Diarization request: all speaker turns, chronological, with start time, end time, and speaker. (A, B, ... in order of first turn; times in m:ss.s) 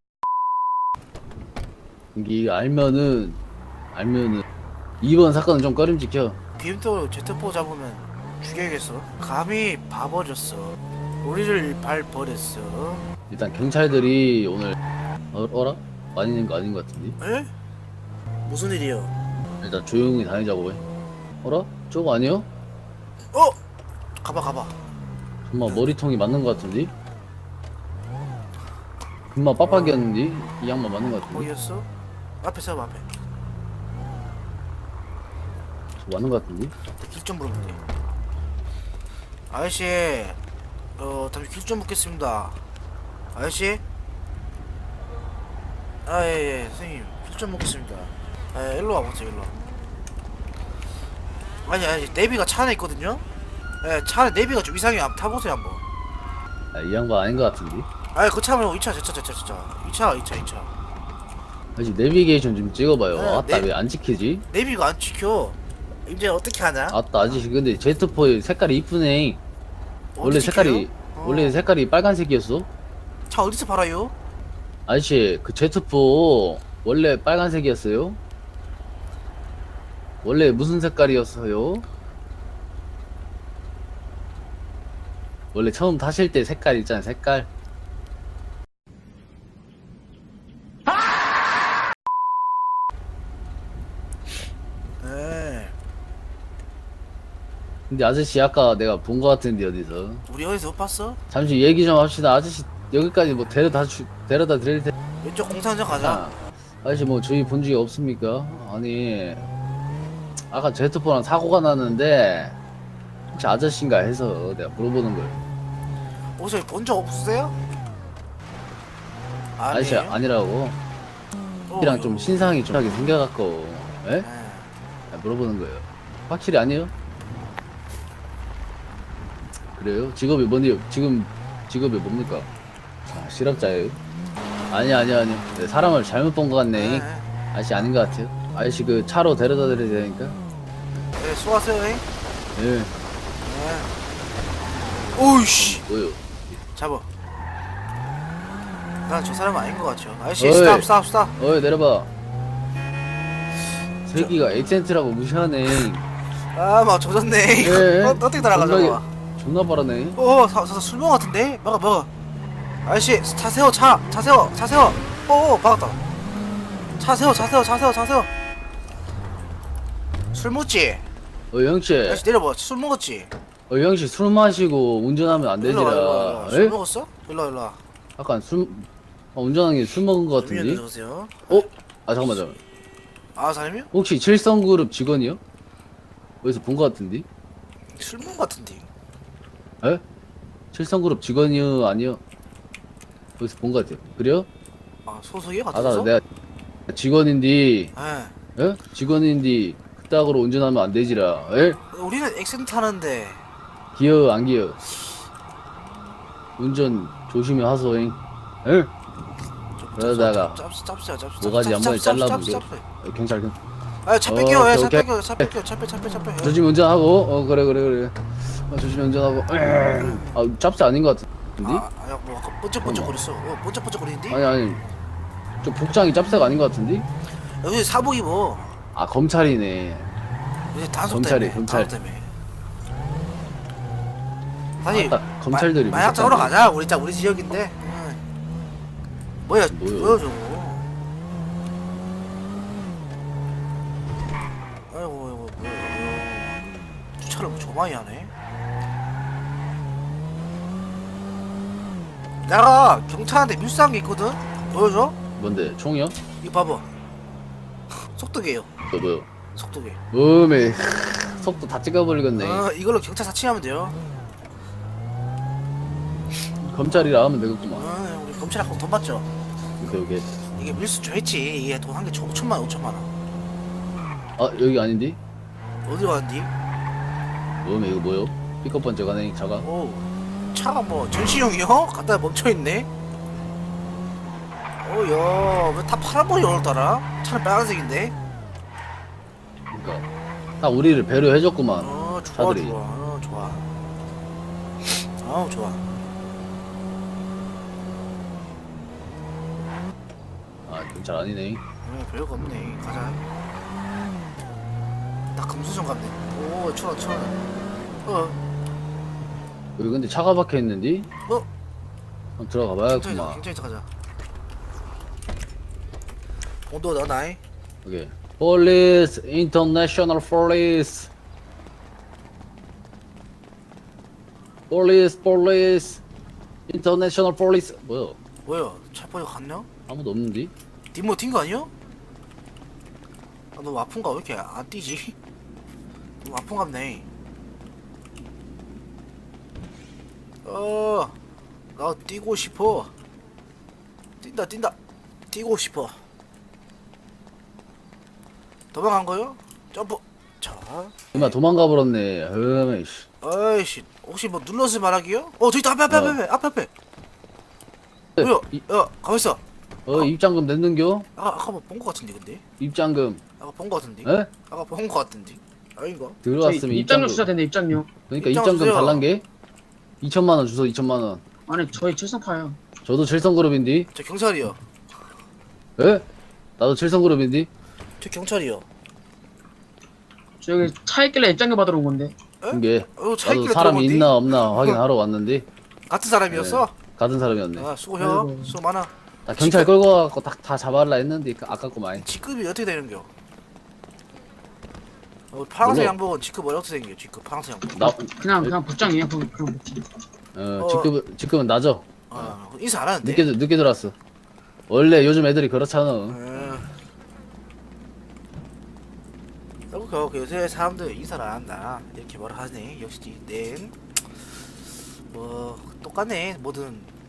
0:02.1-0:03.4 A
0:03.9-0:04.4 A
0:05.0-0:06.4 A
0:06.6-0:13.0 B
0:13.3-0:14.8 A
0:15.3-0:17.2 A
0:17.2-0:17.5 B
0:18.4-0:19.1 B
0:19.6-0:20.8 A
0:21.4-0:22.5 A
0:24.2-0:24.7 B
0:25.5-0:26.9 A
0:25.6-0:25.9 B
0:29.3-0:31.5 A
0:29.6-0:30.0 B
0:31.3-0:31.9 B
0:32.4-0:33.0 B
0:36.0-0:36.7 A
0:37.0-0:37.8 B
0:39.5-0:40.4 B
0:41.0-0:42.6 B
0:43.3-0:43.8 B
0:46.0-0:49.5 B
0:51.6-0:53.2 B
0:53.8-0:55.8 B
0:56.7-0:57.9 A
0:58.1-1:00.7 B
1:01.8-1:04.4 A
1:03.1-1:03.7 B
1:04.5-1:07.4 B
1:06.9-1:09.4 A
1:10.2-1:11.7 B
1:10.2-1:12.7 A
1:13.3-1:14.1 B
1:14.9-1:18.2 A
1:20.2-1:21.8 A
1:25.5-1:27.5 A
1:35.0-1:35.7 B
1:37.9-1:40.2 A
1:40.2-1:41.2 B
1:41.3-1:44.9 A
1:45.2-1:46.2 B
1:46.0-1:49.5 A
1:50.5-1:52.6 A
1:53.3-1:55.4 A
1:56.4-1:57.6 B
1:59.6-2:00.2 B
1:59.7-2:00.8 A
2:01.7-2:02.6 B
2:01.8-2:04.2 A
2:04.2-2:04.7 B
2:05.1-2:06.9 A
2:09.8-2:12.5 A
2:13.1-2:14.0 A
2:14.7-2:20.4 A
2:16.7-2:17.3 B
2:21.1-2:22.0 B
2:22.6-2:22.9 A
2:23.4-2:24.0 B
2:25.1-2:25.8 B
2:25.6-2:26.2 A
2:26.7-2:27.0 B
2:29.0-2:31.4 B
2:30.4-2:32.1 A
2:34.0-2:36.0 A
2:36.5-2:39.1 B
2:37.6-2:40.2 A
2:40.2-2:42.1 B
2:42.8-2:46.0 B
2:46.9-2:48.3 B
2:50.3-2:51.0 B
2:51.5-2:52.2 A
2:52.0-2:53.3 B
2:53.7-2:56.8 A
2:55.3-2:57.8 B
2:58.2-3:00.8 A
3:00.3-3:01.7 B
3:01.5-3:02.6 A
3:03.4-3:03.9 B
3:03.9-3:05.4 A
3:06.4-3:07.2 A
3:08.0-3:08.9 B
3:10.7-3:12.2 A
3:13.4-3:14.5 A
3:15.0-3:16.2 B
3:15.7-3:16.2 A
3:16.9-3:17.9 A
3:17.9-3:18.3 B
3:18.6-3:21.8 A
3:21.9-3:23.4 B
3:24.0-3:24.8 A
3:26.6-3:28.9 A
3:29.8-3:32.8 B
3:30.0-3:30.6 A
3:31.4-3:33.6 A
3:34.0-3:36.6 B
3:34.3-3:35.5 A
3:36.4-3:41.8 A
3:40.0-3:40.4 B
3:41.6-3:44.4 B
3:42.8-3:43.2 A
3:44.3-3:44.8 A
3:45.6-3:47.0 A
3:47.4-3:48.8 B
3:48.9-3:50.1 A
3:50.7-3:52.3 B
3:51.1-3:51.9 A
3:54.8-3:58.2 B
3:54.9-3:56.5 A
3:59.4-4:00.9 B
3:59.7-4:00.2 A
4:04.9-4:06.6 B
4:07.2-4:08.3 B
4:12.4-4:15.1 B
4:15.4-4:16.2 A
4:16.4-4:16.8 B
4:18.1-4:18.7 B
4:18.9-4:19.3 A
4:19.5-4:20.0 B
4:20.1-4:22.6 A
4:22.3-4:24.0 B
4:26.6-4:27.9 A
4:27.7-4:29.3 B
4:29.8-4:30.3 A
4:30.5-4:33.1 B
4:34.4-4:35.2 A
4:35.8-4:36.5 B
4:37.6-4:39.7 A
4:39.6-4:42.9 B
4:44.8-4:48.1 B
4:49.7-4:50.0 A
4:50.6-4:52.7 A
4:51.8-4:53.7 B
4:54.8-4:55.8 B
5:00.6-5:01.6 A
5:01.8-5:03.2 B
5:05.3-5:07.4 B
5:08.0-5:08.4 B
5:09.8-5:11.1 A
5:12.4-5:13.4 A
5:12.9-5:13.8 B
5:16.7-5:17.4 B
5:17.8-5:21.1 A
5:24.7-5:26.0 A
5:26.7-5:28.2 A
5:28.4-5:29.7 B
5:29.9-5:30.5 A
5:30.9-5:31.7 B
5:33.6-5:35.2 B
5:36.2-5:37.0 B
5:40.4-5:41.1 B
5:41.8-5:42.9 B
5:44.2-5:44.7 B
5:45.3-5:46.0 B
5:48.7-5:51.4 B
5:51.1-5:53.1 A
5:53.2-5:56.7 B
5:58.2-6:00.1 B
5:59.9-6:01.1 A
6:01.2-6:02.4 B
6:02.6-6:03.2 A
6:03.4-6:06.2 B
6:06.2-6:07.3 A
6:06.4-6:07.9 C
6:08.1-6:09.2 A
6:08.2-6:09.1 B
6:10.0-6:11.2 A
6:11.5-6:12.6 C
6:12.8-6:13.9 A
6:13.9-6:14.6 B
6:15.8-6:16.0 A
6:16.6-6:17.5 A
6:18.0-6:18.6 B
6:20.4-6:22.2 C
6:22.4-6:24.8 B
6:22.5-6:25.4 A
6:25.9-6:26.7 B
6:26.3-6:27.7 A
6:27.6-6:29.7 B
6:28.0-6:28.5 C
6:29.3-6:32.0 A
6:31.9-6:33.1 B
6:35.3-6:37.9 B
6:35.6-6:36.0 A
6:37.7-6:38.5 A
6:37.8-6:40.0 C
6:40.3-6:42.3 A
6:40.6-6:40.9 B
6:42.1-6:43.3 B
6:43.0-6:43.9 A
6:44.7-6:46.2 A
6:46.1-6:46.8 B
6:49.7-6:56.9 B